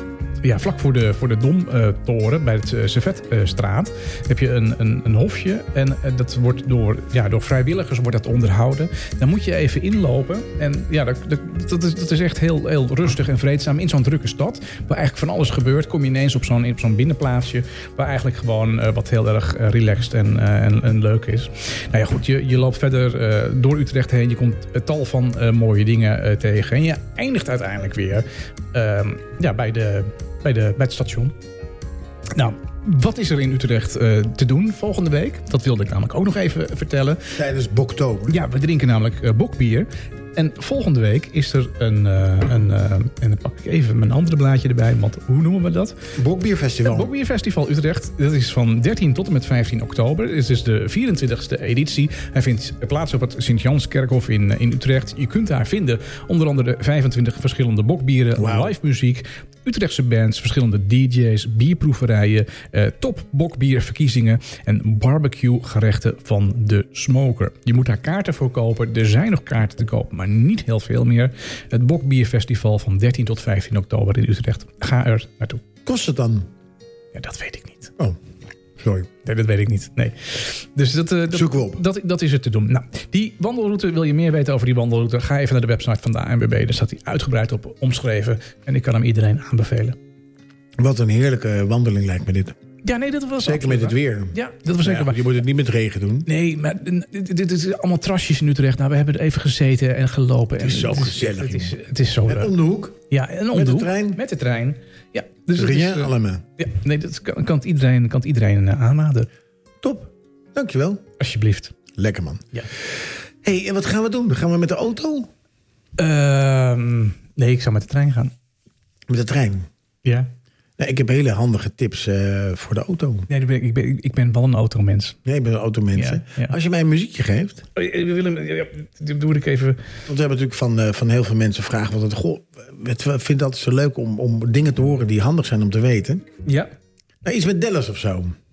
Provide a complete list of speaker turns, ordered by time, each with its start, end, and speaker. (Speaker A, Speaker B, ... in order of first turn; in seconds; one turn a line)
Speaker A: 0.4-31.3
Speaker A: 32.4-37.4
Speaker B: 37.3-38.4
Speaker A: 38.3-46.0
Speaker B: 46.2-47.1
Speaker A: 46.9-75.6
Speaker B: 58.4-58.8
Speaker B: 75.9-76.5
Speaker A: 77.1-78.0
Speaker B: 78.8-79.1
Speaker A: 79.2-90.0
Speaker B: 81.3-81.8
Speaker B: 90.8-92.6
Speaker A: 92.8-95.3
Speaker B: 93.4-96.3
Speaker A: 96.3-102.5
Speaker B: 100.6-103.0
Speaker A: 103.1-109.3
Speaker B: 103.5-104.2
Speaker B: 105.5-106.4
Speaker B: 109.8-111.0
Speaker A: 111.2-111.8
Speaker B: 112.0-112.5
Speaker B: 113.4-115.3
Speaker A: 116.0-118.3
Speaker B: 119.1-119.7
Speaker A: 120.0-120.3
Speaker B: 120.8-123.3
Speaker A: 123.3-125.2
Speaker B: 125.2-127.6
Speaker A: 126.0-126.6
Speaker A: 127.8-129.8
Speaker B: 130.1-136.3
Speaker B: 137.2-138.4